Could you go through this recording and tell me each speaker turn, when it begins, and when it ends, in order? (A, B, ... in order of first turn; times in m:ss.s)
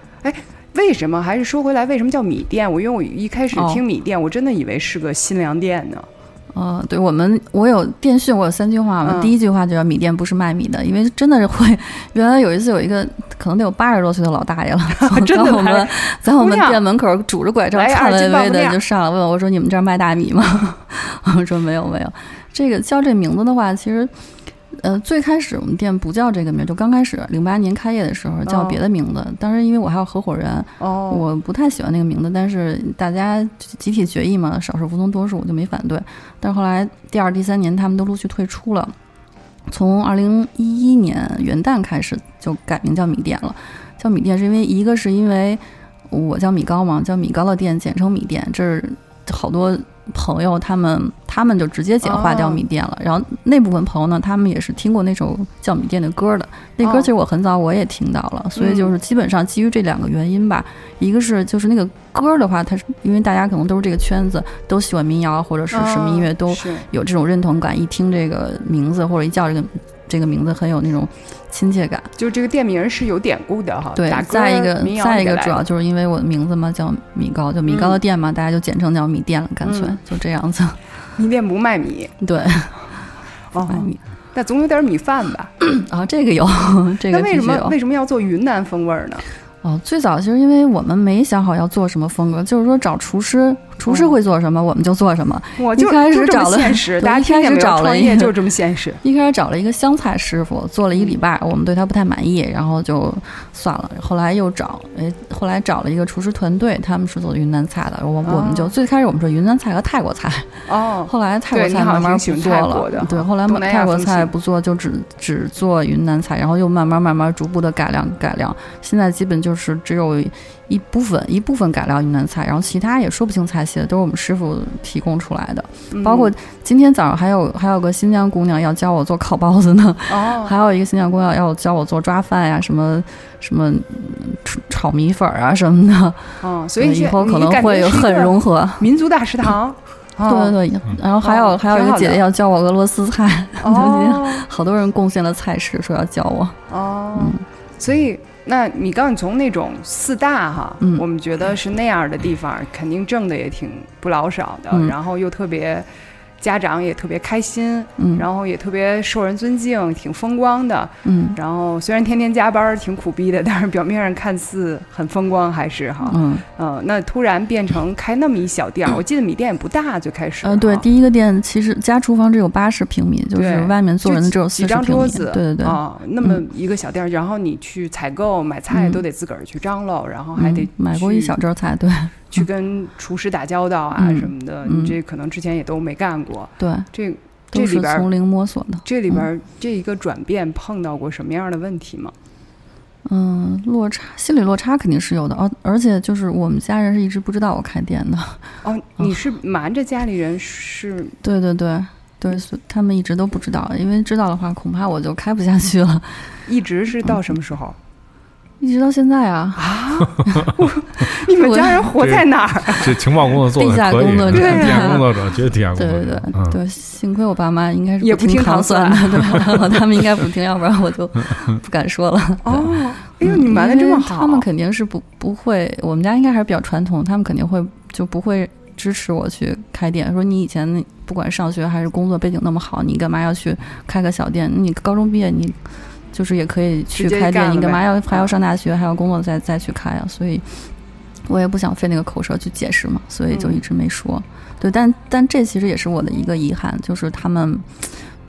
0:00.2-0:06.1 A
0:03.5-0:03.8 B
0:06.5-0:24.1 B
0:09.0-0:09.4 A
0:15.0-0:16.8 A
0:17.7-0:18.8 A
0:24.8-0:38.9 B
0:28.5-0:28.8 A
0:30.8-0:31.2 A
0:39.7-1:12.1 B
0:52.0-0:52.6 A
0:56.8-0:57.1 A
0:58.6-0:58.9 A
1:05.7-1:06.9 A
1:12.2-1:15.6 A
1:14.0-1:20.8 B
1:17.7-1:18.0 A
1:19.6-1:20.0 A
1:21.2-1:22.1 A
1:22.2-1:22.8 B
1:23.5-1:25.5 A
1:23.7-1:24.0 B
1:25.6-1:27.8 B
1:27.1-1:29.2 A
1:29.6-1:38.3 B
1:33.9-1:34.2 A
1:35.6-1:39.0 A
1:39.0-1:50.5 B
1:40.9-1:41.2 A
1:48.2-1:48.7 A
1:50.7-1:54.3 A
1:51.1-2:16.3 B
2:05.9-2:06.3 A
2:10.1-2:10.6 A
2:16.4-2:20.6 A
2:16.8-2:18.8 B
2:20.3-2:26.6 B
2:21.2-2:22.2 A
2:23.6-2:24.5 A
2:26.7-2:35.9 A
2:27.2-2:27.4 B
2:36.4-2:50.9 A
2:38.0-2:38.3 B
2:41.0-2:41.4 B
2:46.1-2:46.4 B
2:50.4-2:56.4 B
2:53.4-3:01.4 A
2:58.7-2:59.0 B
3:00.4-3:02.5 B
3:02.3-3:08.1 A
3:04.0-3:05.0 B
3:06.6-3:06.9 B
3:07.5-3:09.3 B
3:08.8-3:12.1 A
3:13.1-3:18.4 B
3:18.6-3:21.2 A
3:21.2-3:26.2 B
3:26.5-3:27.8 A
3:28.6-3:29.6 B
3:29.6-3:33.2 A
3:31.4-3:31.9 B
3:32.0-3:36.6 C
3:33.6-3:35.0 B
3:34.3-3:35.1 A
3:35.8-3:42.7 B
3:38.0-3:39.7 A
3:42.4-3:44.5 A
3:43.2-3:55.6 B
3:56.1-4:00.4 B
3:56.9-3:58.3 A
4:01.3-4:07.8 B
4:03.3-4:03.6 A